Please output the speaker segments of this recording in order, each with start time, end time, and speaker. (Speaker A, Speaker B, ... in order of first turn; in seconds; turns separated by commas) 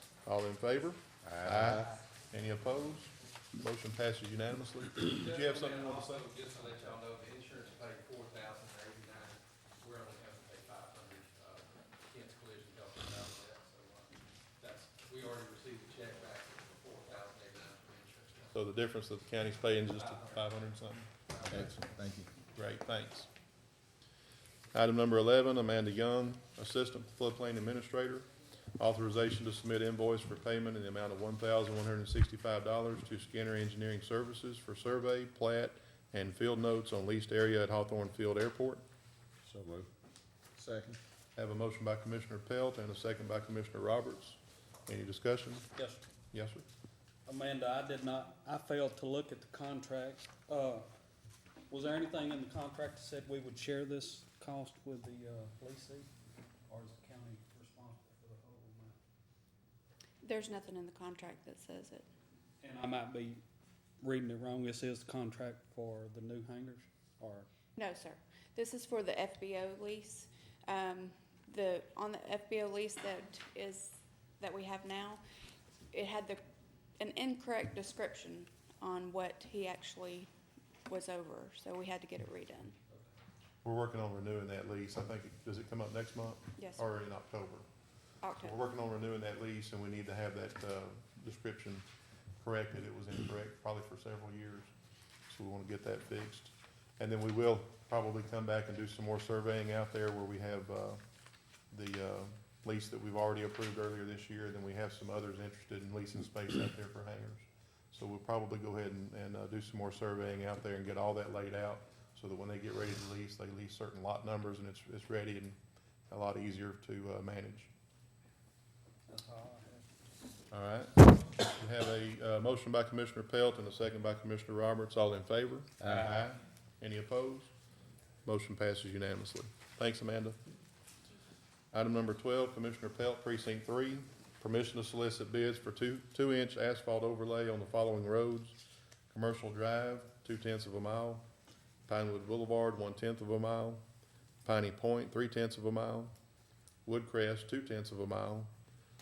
Speaker A: 0.2-6.3, Speaker B: 1.2-1.9, Speaker C: 5.1-18.6, Speaker A: 18.5-21.7, Speaker C: 19.9-20.5, Speaker C: 21.3-21.8, Speaker B: 21.4-22.3, Speaker A: 22.6-23.3, Speaker A: 24.7-38.8, Speaker B: 39.5-39.9, Speaker B: 40.6-41.0, Speaker A: 41.4-45.7, Speaker D: 45.7-46.0, Speaker A: 46.3-46.6, Speaker D: 47.2-50.8, Speaker D: 51.7-56.1, Speaker D: 56.7-59.0, Speaker E: 60.2-62.0, Speaker D: 62.6-63.4, Speaker D: 64.0-67.5, Speaker E: 67.8-75.2, Speaker E: 75.9-76.4, Speaker E: 77.0-80.3, Speaker E: 80.9-82.8, Speaker A: 83.6-87.7, Speaker E: 86.6-86.8, Speaker E: 88.2-88.6, Speaker A: 88.4-91.8, Speaker A: 92.4-94.7, Speaker A: 95.3-101.0, Speaker A: 101.7-115.6, Speaker A: 116.1-117.7, Speaker D: 119.1-119.9, Speaker A: 120.5-127.5, Speaker A: 128.2-130.4, Speaker A: 131.7-138.6, Speaker A: 139.1-141.2, Speaker A: 141.9-143.8, Speaker A: 144.4-146.1, Speaker A: 146.8-148.5